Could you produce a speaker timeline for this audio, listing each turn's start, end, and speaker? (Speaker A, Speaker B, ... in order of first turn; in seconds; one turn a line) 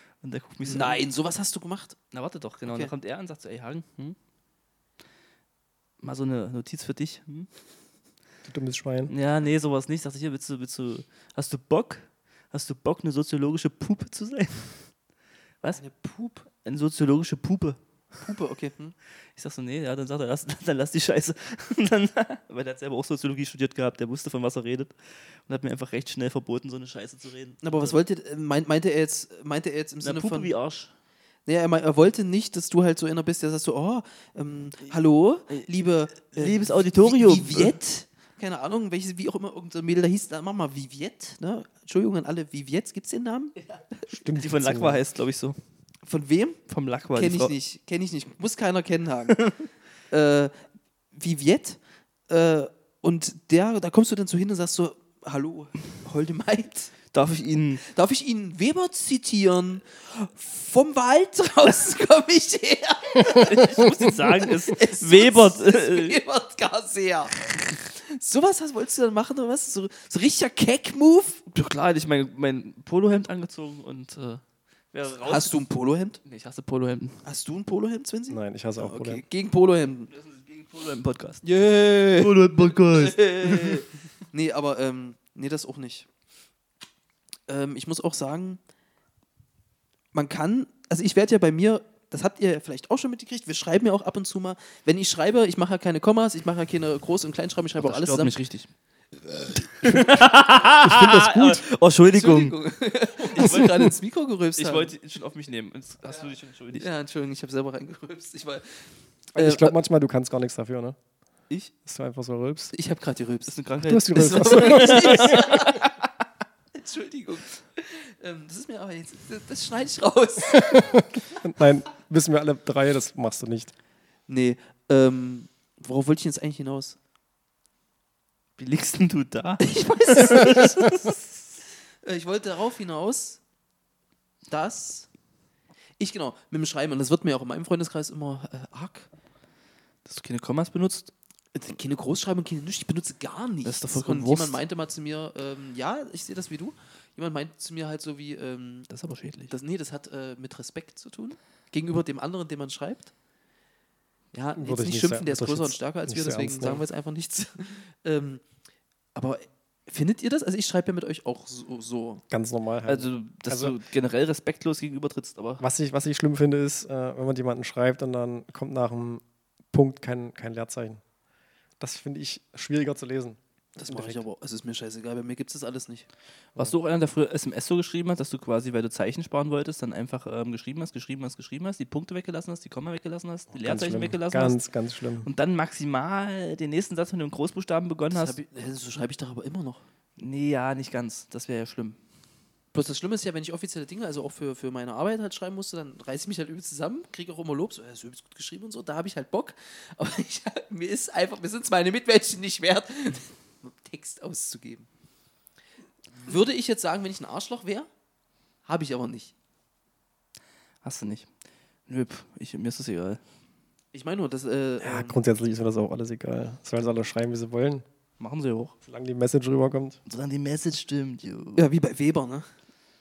Speaker A: 0.2-1.0
Speaker B: 0.6-1.9
Speaker A: 2.1-4.2
Speaker B: 2.6-2.9
Speaker A: 6.0-7.5
Speaker C: 8.4-9.1
Speaker A: 9.1-14.9
Speaker B: 15.7-16.5
Speaker A: 16.5-17.8
Speaker B: 18.2-18.9
Speaker A: 19.3-28.0
Speaker B: 27.6-30.5
Speaker A: 30.0-30.9
Speaker B: 31.4-43.5
Speaker A: 36.3-37.8
Speaker C: 44.1-45.0
Speaker A: 44.3-45.6
Speaker B: 46.0-46.6
Speaker A: 46.7-47.5
Speaker B: 47.1-49.6
Speaker B: 50.1-50.5
Speaker B: 51.1-56.9
Speaker A: 57.1-57.8
Speaker B: 57.9-71.4
Speaker A: 63.2-66.2
Speaker A: 71.5-75.6
Speaker B: 75.2-76.2
Speaker A: 76.2-77.2
Speaker B: 77.2-80.1
Speaker C: 78.3-79.2
Speaker A: 80.1-81.4
Speaker B: 81.4-86.1
Speaker A: 82.1-83.8
Speaker B: 87.5-88.6
Speaker B: 90.1-98.4
Speaker A: 97.8-98.7
Speaker A: 99.7-102.6
Speaker C: 100.8-101.6
Speaker B: 102.1-104.9
Speaker A: 103.2-103.9
Speaker A: 104.6-106.9
Speaker B: 106.1-109.8
Speaker C: 109.3-111.0
Speaker C: 111.8-112.7
Speaker B: 112.7-113.6
Speaker A: 113.5-116.1
Speaker C: 113.8-115.7
Speaker B: 114.1-115.8
Speaker B: 116.7-121.0
Speaker C: 120.5-123.7
Speaker B: 124.3-127.0
Speaker A: 128.6-131.3
Speaker B: 129.6-130.8
Speaker B: 132.0-133.4
Speaker B: 134.5-135.1
Speaker B: 136.0-139.1
Speaker A: 140.1-141.1
Speaker B: 141.5-148.9
Speaker A: 143.6-144.6
Speaker A: 148.9-149.5
Speaker B: 149.5-153.1
Speaker B: 154.3-158.4
Speaker C: 154.6-156.8
Speaker B: 159.1-162.2
Speaker C: 162.3-163.8
Speaker A: 162.9-165.6
Speaker C: 165.6-171.0
Speaker C: 171.8-174.2
Speaker B: 173.8-176.1
Speaker A: 176.5-184.6
Speaker C: 183.6-185.3
Speaker A: 185.2-188.3
Speaker B: 188.1-189.8
Speaker A: 190.2-192.0
Speaker B: 192.7-204.9
Speaker B: 206.2-207.9
Speaker B: 208.7-209.3
Speaker A: 210.8-211.3
Speaker A: 211.9-213.2
Speaker B: 213.9-215.2
Speaker C: 214.8-217.8
Speaker A: 218.2-218.7
Speaker C: 218.8-220.0
Speaker A: 220.1-221.6
Speaker B: 221.6-222.5